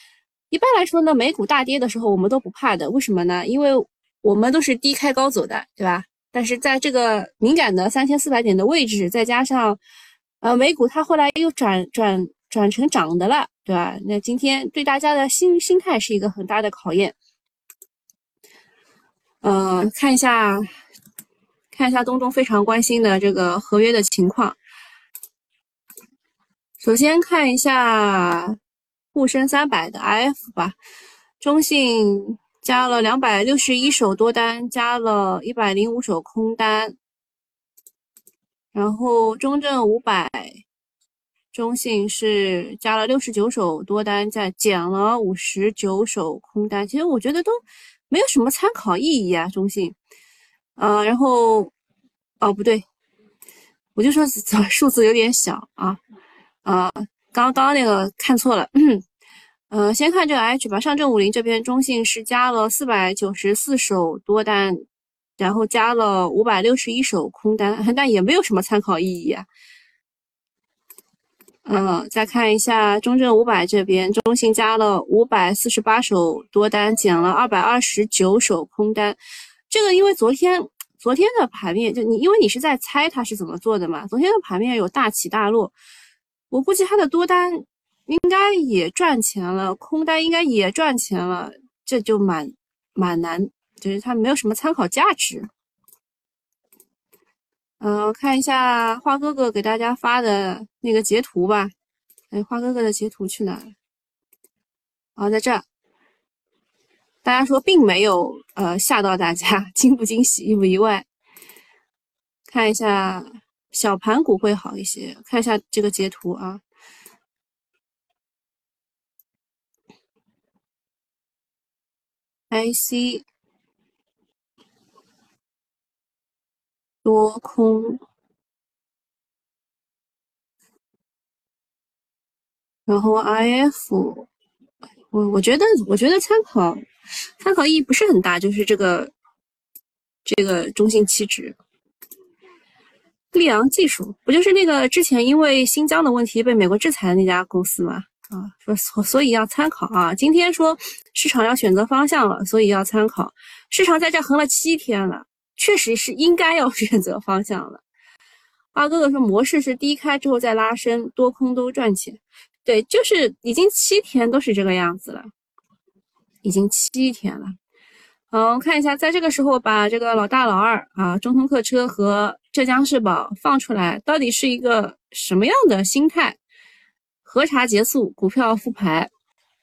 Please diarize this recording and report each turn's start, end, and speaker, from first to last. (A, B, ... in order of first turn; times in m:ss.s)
0:00.5-0:09.8 A
0:10.4-0:17.2 A
0:19.4-0:20.7 A
0:21.7-0:24.6 A
0:26.8-0:28.6 A
0:29.1-0:30.8 A
0:31.4-0:36.9 A
0:38.7-0:40.6 A
0:41.5-0:47.5 A
0:48.1-0:50.0 A
0:50.8-0:51.7 A
0:52.4-0:52.8 A
0:54.0-0:56.0 A
0:56.6-0:59.0 A
0:59.7-1:04.8 A
1:05.4-1:09.5 A
1:11.6-1:19.2 A
1:19.7-1:25.7 A
1:26.5-1:35.5 A
1:37.8-1:41.7 A
1:42.3-1:43.7 A
1:45.2-1:45.6 A
1:47.2-1:51.1 A
1:52.5-1:56.6 A
2:02.5-2:03.3 A
2:07.0-2:08.0 A
2:12.9-2:14.3 A
2:15.1-2:16.8 A
2:17.4-2:19.1 A
2:20.3-2:21.6 A
2:23.3-2:37.8 A
2:38.7-2:45.3 A
2:46.4-2:47.6 A
2:48.3-2:56.4 A
2:57.2-2:59.1 A